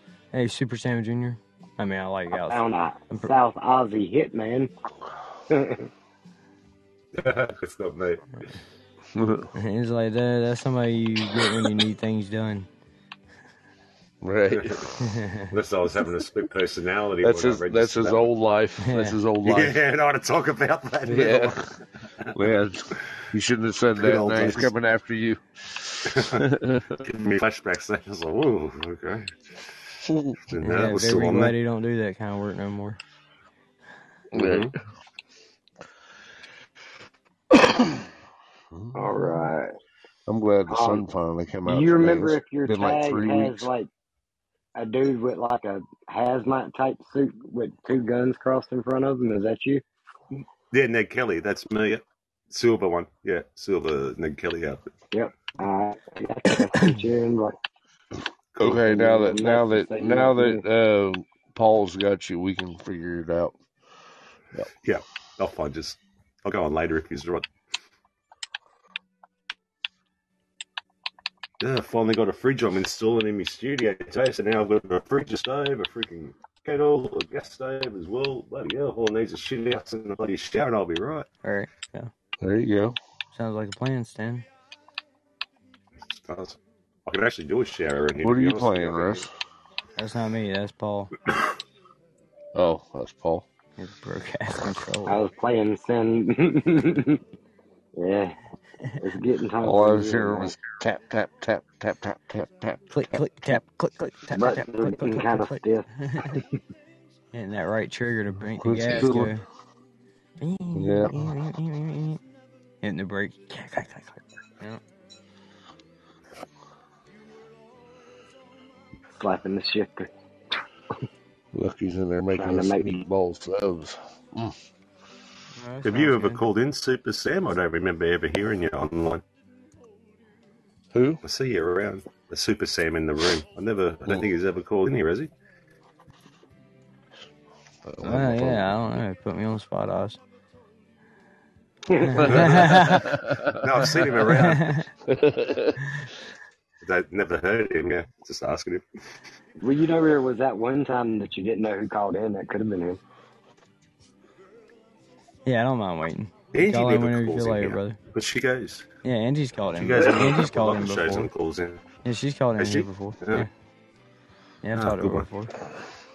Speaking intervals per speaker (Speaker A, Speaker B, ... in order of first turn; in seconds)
Speaker A: 0.3-3.3, 9.5-12.7, 15.0-15.5, 18.8-19.2, 30.6-33.0, 81.4-82.1, 83.3-84.5, 90.0-91.1, 93.8-95.2, 102.9-106.4, 107.3-109.4, 110.4-112.2, 112.8-114.8, 125.5-126.4, 138.0-140.2, 142.0-143.2, 144.2-144.9, 155.4-158.0, 159.0-161.3, 162.0-163.5, 164.6-165.5
Speaker B: 2.3-4.7, 5.5-5.9, 38.9-39.7, 40.7-41.0, 41.6-43.9, 44.7-49.8, 55.1-57.5, 58.6-60.6, 95.0-97.2, 97.9-98.3, 99.0-100.5, 104.3-106.5, 119.2-120.1, 122.3-123.0, 141.9-142.2, 149.6-153.0
Speaker C: 7.1-8.2, 14.5-14.9, 15.5-18.3, 19.4-21.7, 23.9-24.7, 26.1-26.4, 27.0-29.4, 30.5-31.5, 34.3-34.7, 50.3-54.9, 64.8-67.5, 71.6-81.3, 86.1-89.2, 125.8-129.2, 131.2-135.3, 142.2-144.8, 146.8-148.8, 156.5-158.9, 159.7-161.8, 162.6-163.5, 164.7-165.3
Speaker D: 9.1-9.5, 14.2-14.8, 17.2-19.8, 21.0-21.8, 22.3-27.0, 30.1-30.6, 34.3-34.8, 37.5-38.1, 38.7-39.1, 40.3-43.7, 58.6-63.6, 82.4-83.0, 88.2-89.3, 92.5-93.5, 99.6-102.9, 108.5-109.4, 110.7-111.2, 121.5-124.5, 130.9-131.2, 137.8-138.8, 142.2-144.0, 145.1-145.8